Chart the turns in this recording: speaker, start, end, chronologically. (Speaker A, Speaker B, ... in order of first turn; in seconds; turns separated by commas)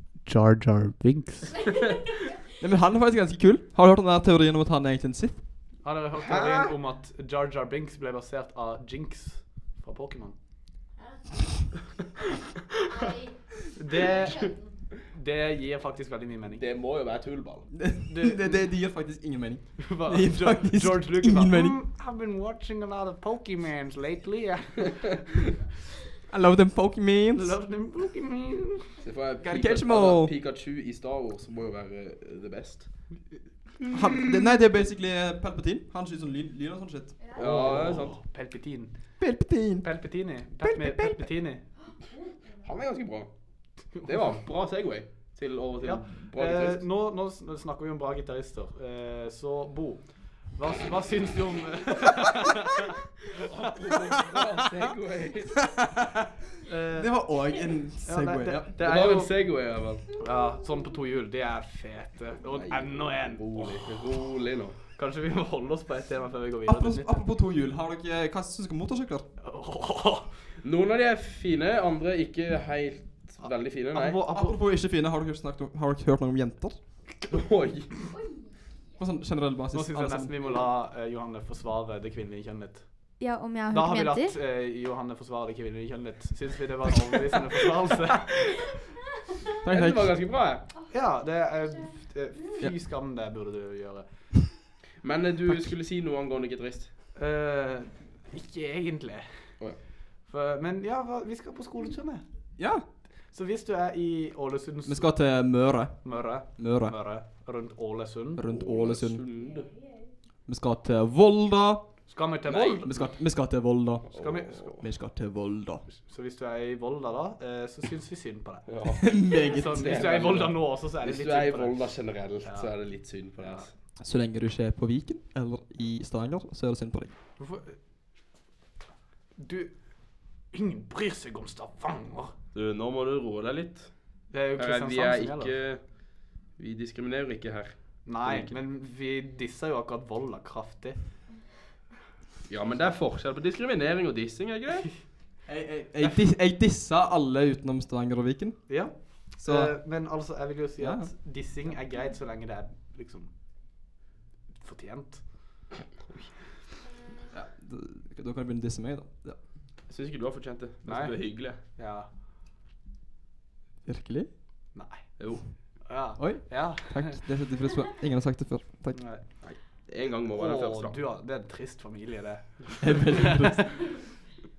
Speaker A: 0.2-1.6, Speaker B: 2.6-5.4, Speaker A: 5.8-10.3, Speaker C: 6.2-6.7, Speaker D: 11.0-11.3, Speaker D: 12.8-14.7, Speaker A: 13.7-14.5, Speaker A: 15.1-16.6, Speaker C: 16.6-17.7, Speaker B: 17.7-21.8, Speaker A: 18.0-18.6, Speaker A: 19.8-25.5, Speaker B: 26.3-27.5, Speaker A: 27.3-28.9, Speaker C: 29.0-32.9, Speaker B: 29.4-30.3, Speaker B: 33.9-37.8, Speaker D: 37.2-37.5, Speaker C: 37.3-38.2, Speaker A: 37.4-38.9, Speaker B: 39.2-39.9, Speaker A: 39.8-41.6, Speaker B: 40.6-41.2, Speaker C: 42.6-43.3, Speaker A: 43.9-44.3, Speaker C: 44.0-46.8, Speaker A: 45.8-52.9, Speaker C: 53.3-55.6, Speaker B: 55.9-56.3, Speaker A: 56.6-57.1, Speaker B: 56.9-58.7, Speaker A: 58.0-59.3, Speaker C: 58.8-60.0, Speaker A: 60.2-63.9, Speaker C: 62.5-64.8, Speaker A: 65.0-67.2, Speaker B: 66.6-69.2, Speaker A: 69.4-70.3, Speaker C: 70.6-74.2, Speaker A: 73.4-74.6, Speaker B: 74.2-76.8, Speaker C: 77.3-77.9, Speaker B: 79.0-80.3, Speaker A: 79.7-83.2, Speaker D: 83.2-84.4, Speaker A: 83.7-88.4, Speaker B: 89.6-90.1, Speaker C: 89.7-90.7, Speaker A: 90.9-94.0, Speaker C: 95.0-96.9, Speaker A: 97.1-99.3, Speaker A: 100.3-102.2, Speaker B: 102.6-102.8, Speaker A: 103.3-105.1, Speaker B: 104.8-107.0, Speaker A: 106.0-108.4, Speaker B: 108.3-109.2, Speaker C: 108.5-109.8, Speaker B: 110.5-111.9, Speaker A: 112.1-113.0, Speaker C: 112.5-112.8, Speaker B: 112.8-114.1, Speaker C: 114.0-114.8, Speaker A: 114.2-114.8, Speaker B: 114.8-115.8, Speaker A: 115.9-121.8, Speaker C: 118.7-119.0, Speaker B: 119.0-120.3, Speaker C: 119.6-123.7, Speaker A: 122.4-122.7, Speaker A: 123.4-123.7, Speaker B: 124.0-127.1, Speaker A: 127.4-127.8, Speaker A: 129.4-129.8, Speaker A: 130.5-132.3, Speaker C: 132.5-133.9, Speaker A: 134.3-135.5, Speaker C: 134.6-135.8, Speaker C: 136.6-138.5, Speaker A: 138.1-141.0, Speaker C: 142.5-145.0, Speaker B: 145.4-149.8, Speaker A: 148.7-153.3, Speaker B: 150.8-151.3, Speaker A: 154.5-155.4, Speaker B: 157.3-159.5, Speaker C: 159.9-161.6, Speaker A: 160.8-162.1, Speaker B: 163.8-164.3, Speaker A: 164.7-165.1, Speaker C: 165.2-165.4, Speaker A: 165.8-167.2, Speaker B: 166.2-169.1, Speaker A: 168.9-169.2, Speaker C: 169.4-170.9, Speaker A: 170.3-173.5, Speaker B: 172.8-174.0